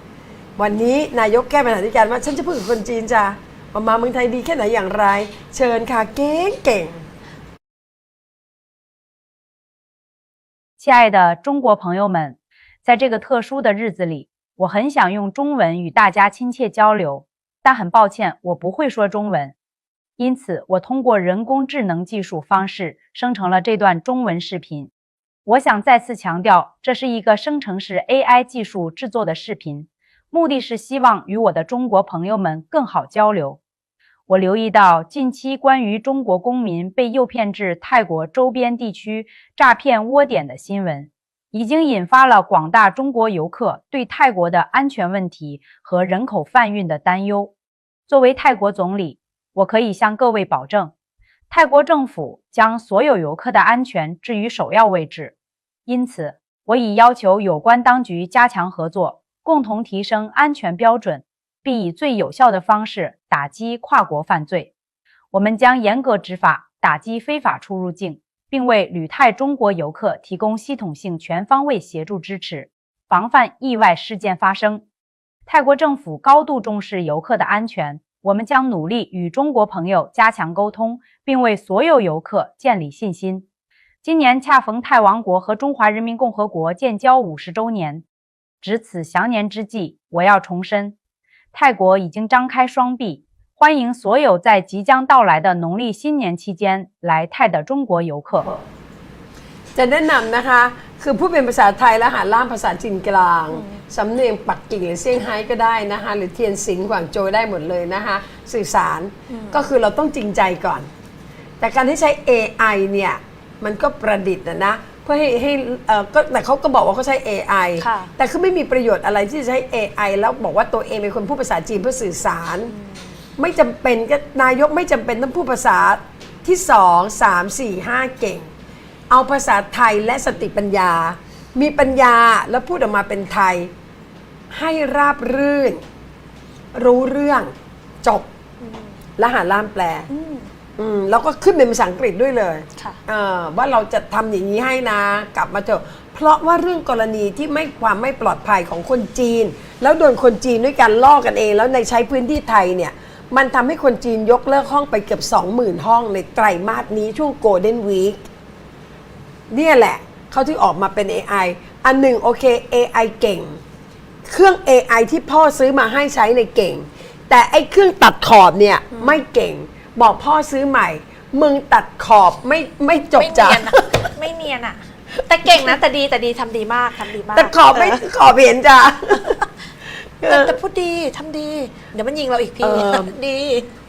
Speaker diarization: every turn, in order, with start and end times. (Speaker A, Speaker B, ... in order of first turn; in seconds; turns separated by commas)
Speaker A: 0.6-7.0, Speaker B: 10.8-19.6, Speaker B: 20.2-24.9, Speaker B: 25.5-33.6, Speaker B: 34.3-47.5, Speaker B: 48.1-50.9, Speaker B: 51.5-55.3, Speaker B: 55.9-64.7, Speaker B: 65.3-74.8, Speaker B: 75.5-83.5, Speaker B: 84.0-88.0, Speaker B: 88.6-91.0, Speaker B: 91.5-98.5, Speaker A: 99.7-110.9, Speaker C: 103.5-103.8, Speaker C: 109.3-109.7, Speaker A: 111.6-122.7, Speaker C: 117.8-118.1, Speaker C: 122.7-123.2, Speaker A: 123.4-128.5, Speaker A: 129.1-133.7, Speaker A: 134.5-135.8, Speaker A: 136.7-137.5, Speaker A: 138.0-138.3, Speaker C: 138.6-139.0, Speaker A: 139.2-140.1, Speaker C: 140.1-140.5, Speaker A: 140.8-158.2, Speaker A: 159.5-163.6, Speaker A: 164.3-174.1, Speaker C: 168.9-169.2, Speaker C: 173.2-178.0, Speaker A: 177.3-179.4, Speaker A: 180.2-180.6, Speaker C: 180.2-183.7, Speaker A: 182.6-183.1